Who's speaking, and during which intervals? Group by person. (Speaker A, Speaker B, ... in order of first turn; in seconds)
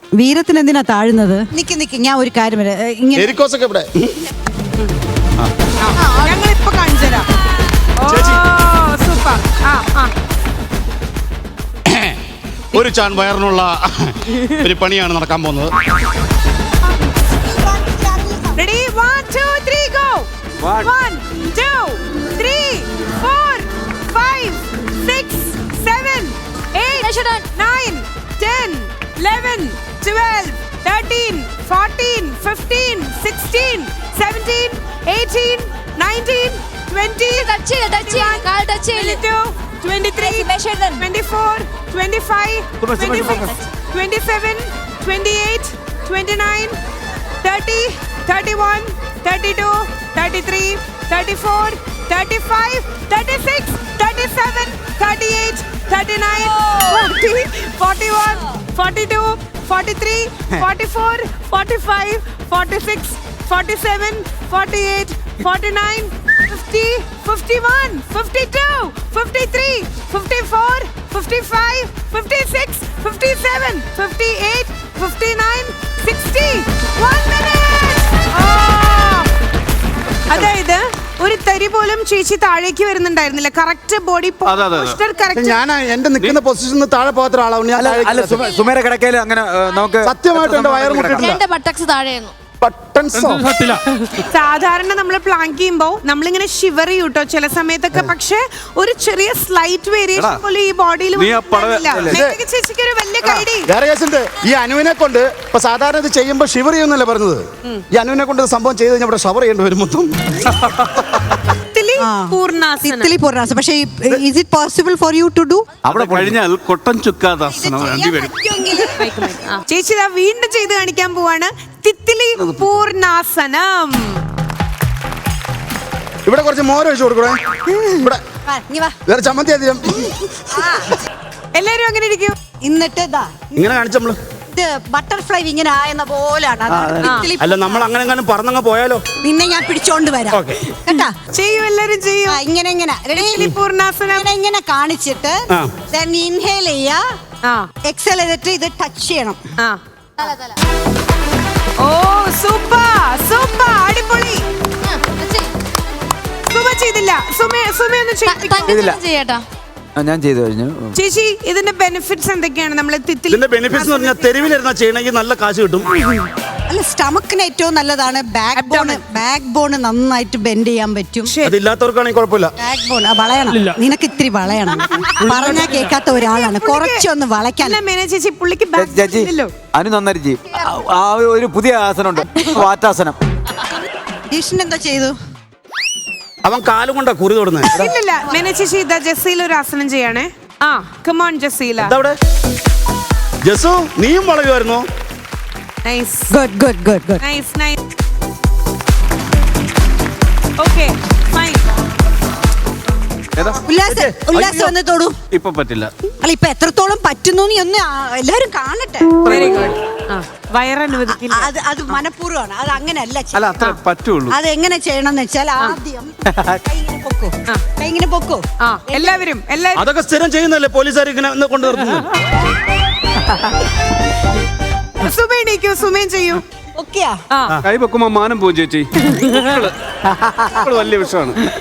Speaker A: 0.2-3.4, 17.5-18.6, 112.0-115.7, 117.5-119.1, 128.5-129.0, 130.5-130.9, 132.6-133.5, 134.5-137.9, 139.2-141.1, 142.3-143.5, 144.1-147.0, 147.9-149.4, 166.7-171.3, 172.6-177.8, 184.3-185.2, 196.3-197.2, 203.6-205.2, 206.2-209.2, 211.1-213.5, 214.3-219.2, 226.8-227.2, 230.2-230.6
Speaker B: 3.2-4.3, 8.1-8.4, 11.9-12.2, 12.7-15.7, 42.8-43.6, 85.3-88.5, 90.0-91.4, 92.6-93.5, 102.0-102.4, 103.2-110.5, 126.3-127.4, 128.0-128.2, 129.1-130.2, 133.5-134.2, 136.7-139.0, 140.3-140.6, 163.3-165.9, 171.4-172.5, 186.4-187.9, 191.8-192.2, 193.4-194.9, 203.9-204.7, 219.8-222.1
Speaker C: 5.8-7.3, 8.0-10.1, 18.6-20.3, 20.8-46.8, 47.4-79.3, 80.3-85.6, 94.2-103.7, 111.7-113.1, 119.0-124.2, 131.6-132.3, 137.0-137.3, 141.3-142.4, 143.1-144.3, 151.8-154.4, 156.5-158.9, 160.9-164.5, 168.6-169.0, 171.3-171.6, 176.2-177.1, 177.6-179.5, 187.7-191.9, 195.8-196.3, 197.2-197.8, 200.6-201.6, 209.3-212.0, 218.6-219.9, 225.0-226.4, 227.3-227.6
Speaker D: 20.6-20.9, 84.5-85.0, 101.2-102.2, 115.9-118.3, 203.4-203.6, 205.3-205.9, 209.3-209.6, 213.3-214.4, 227.6-229.7, 230.6-231.4
Speaker E: 26.9-27.5, 37.2-39.2, 40.2-41.1, 91.2-92.3, 150.2-150.6, 154.8-155.5, 158.3-159.4
Speaker F: 87.8-91.4, 115.8-116.3, 158.7-159.0, 160.0-161.0, 178.8-183.2